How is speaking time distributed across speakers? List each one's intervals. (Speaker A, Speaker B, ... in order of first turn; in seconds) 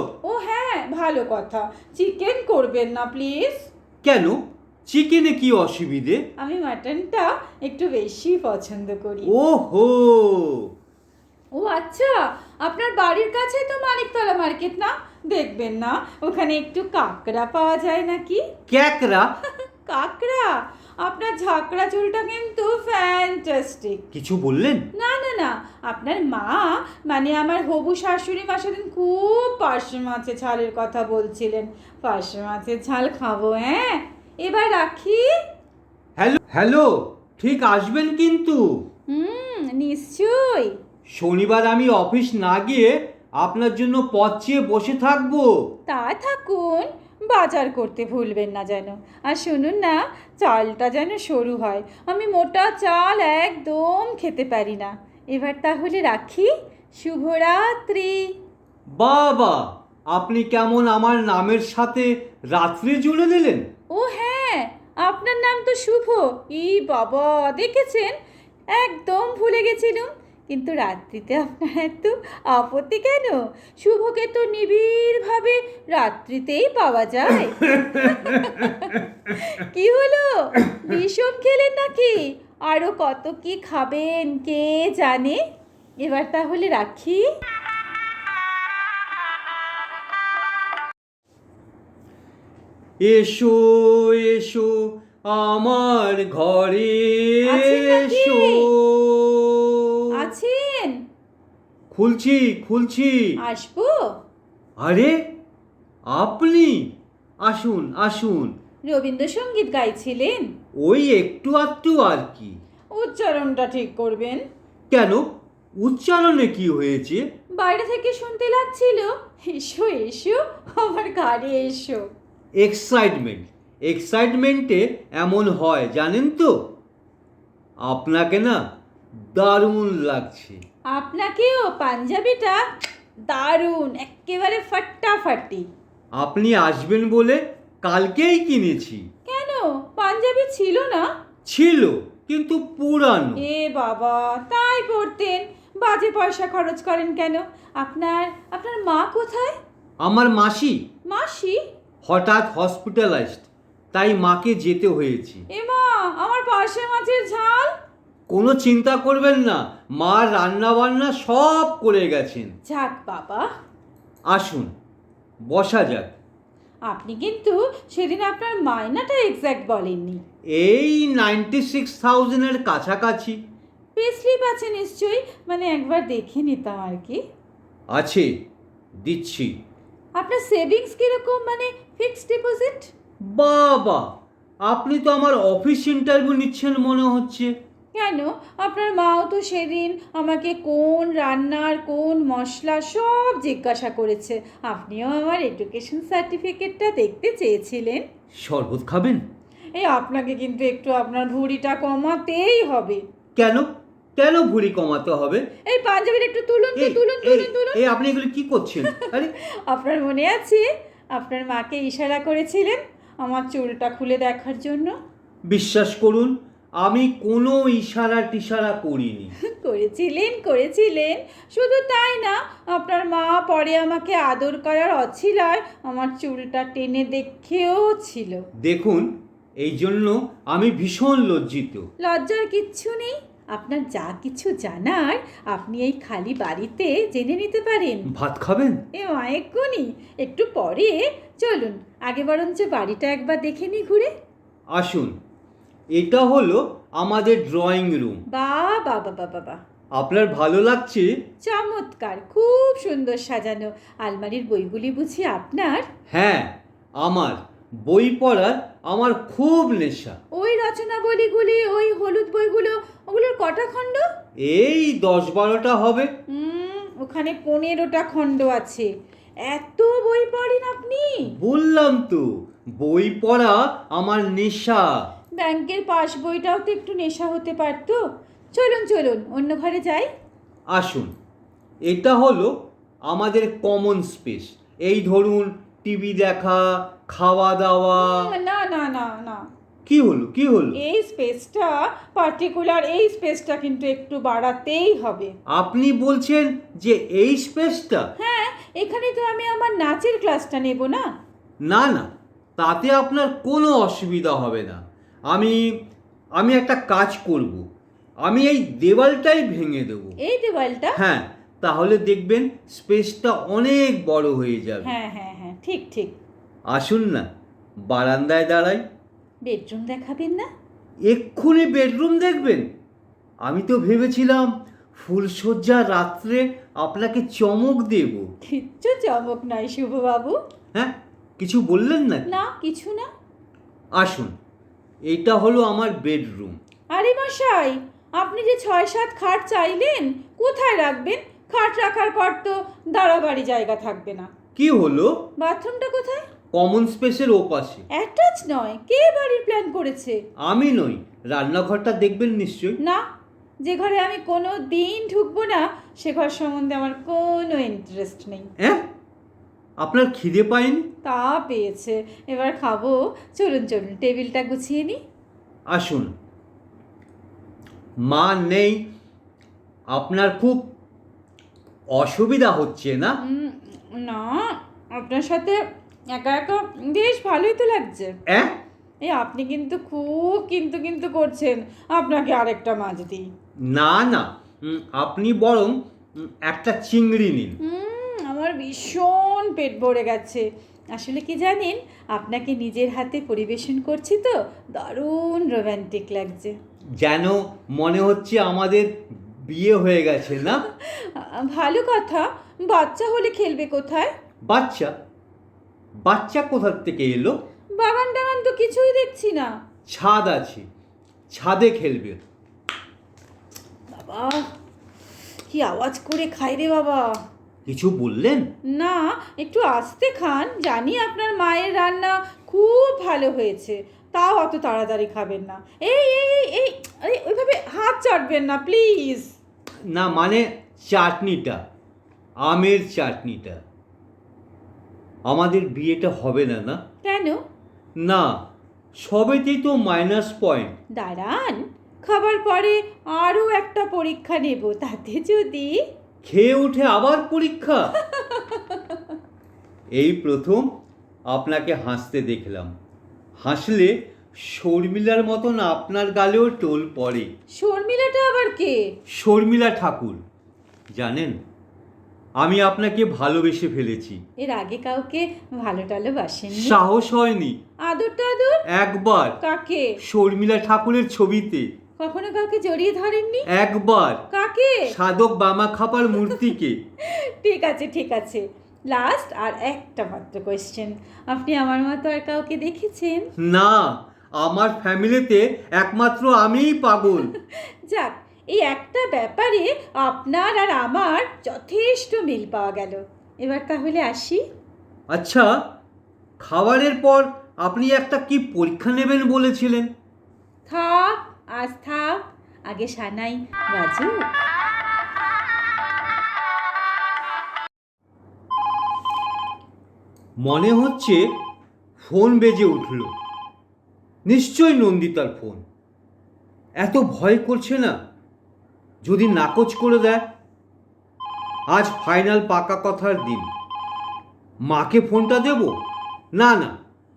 Speaker A: 0.2-3.7, 6.4-9.3, 11.5-18.4, 19.6-24.0, 24.9-35.2, 39.1-40.8, 45.9-58.3, 63.9-68.1, 68.7-85.4, 86.0-87.2, 97.4-98.7, 100.1-101.0, 103.4-104.1, 108.9-110.5, 112.9-114.4, 117.5-122.1, 130.9-132.6, 133.3-135.7, 139.3-141.1, 143.3-149.6, 151.1-151.6, 155.5-157.7, 162.7-163.5, 166.9-170.2, 173.9-177.2, 180.2-182.9, 187.9-198.0, 199.8-203.0, 205.7-207.8, 208.9-214.9, 219.4-228.4, 232.0-238.1, 238.9-244.1, 248.3-249.6, 251.4-255.8, 260.3-264.0, 266.3-268.9, 269.4-271.3, 275.4-278.0, 278.5-280.1, 288.0-289.4, 290.7-295.3, 298.2-301.1, 310.2-311.0, 314.8-316.2, 319.4-320.5, 328.4-330.4, 332.3-333.1, 336.9-344.3, 345.4-346.2, 347.9-350.2, 353.6-358.5, 361.0-365.0, 373.2-375.6, 376.1-378.1, 379.0-383.2, 387.6-396.5, 400.4-404.1, 407.8-409.5, 413.9-414.5, 415.5-417.2, 418.7-429.3, 437.0-437.4, 440.9-445.8, 448.0-449.0, 457.5-458.9, 464.4-466.8, 467.8-468.6, 469.4-470.0, 472.0-473.5, 474.3-474.9, 476.2-476.4, 477.0-483.3, 487.2-494.4, 500.6-504.3
Speaker B: 4.0-6.2, 9.2-10.7, 18.7-19.3, 24.1-24.9, 36.2-38.9, 41.1-45.7, 59.0-63.6, 93.0-100.1, 101.9-103.4, 104.8-105.3, 106.1-108.5, 110.7-112.6, 114.9-115.2, 115.8-117.2, 122.6-126.5, 127.8-128.6, 129.3-130.6, 136.2-139.0, 141.4-143.4, 150.0-150.8, 152.0-155.4, 158.3-162.5, 164.3-164.7, 165.5-166.1, 170.5-173.4, 177.9-178.3, 179.0-179.5, 183.3-184.1, 184.7-187.5, 198.4-199.2, 203.3-205.4, 206.8-209.3, 215.5-219.3, 228.6-231.8, 238.1-238.8, 244.7-245.1, 245.9-248.2, 249.9-251.1, 256.1-260.2, 264.4-266.1, 271.3-275.0, 280.7-281.1, 281.9-288.3, 289.9-290.8, 295.5-298.1, 301.6-305.8, 306.4-307.7, 308.2-310.1, 310.9-314.9, 316.7-317.3, 317.9-318.8, 321.1-322.7, 323.4-328.3, 330.7-332.3, 333.9-334.3, 335.1-336.6, 344.5-345.1, 346.5-347.8, 350.4-352.8, 358.6-358.8, 359.8-360.9, 365.7-366.1, 368.0-368.8, 369.9-370.7, 371.9-373.2, 378.3-378.5, 383.7-387.6, 397.0-400.6, 404.5-404.9, 406.0-407.3, 409.9-410.7, 411.3-412.2, 417.6-418.5, 429.9-431.6, 432.4-433.6, 435.3-436.8, 438.0-438.4, 439.0-440.7, 446.2-447.9, 449.9-450.7, 451.3-452.7, 453.4-457.3, 459.1-460.2, 460.9-461.4, 462.4-464.2, 466.5-467.6, 468.7-469.4, 470.0-471.7, 473.5-474.2, 474.9-476.8, 483.4-487.3, 495.1-495.5, 496.4-499.9, 510.4-511.3, 512.0-513.1, 514.2-515.6, 516.8-518.0, 519.0-520.2, 521.7-523.5, 524.6-525.8, 526.3-526.8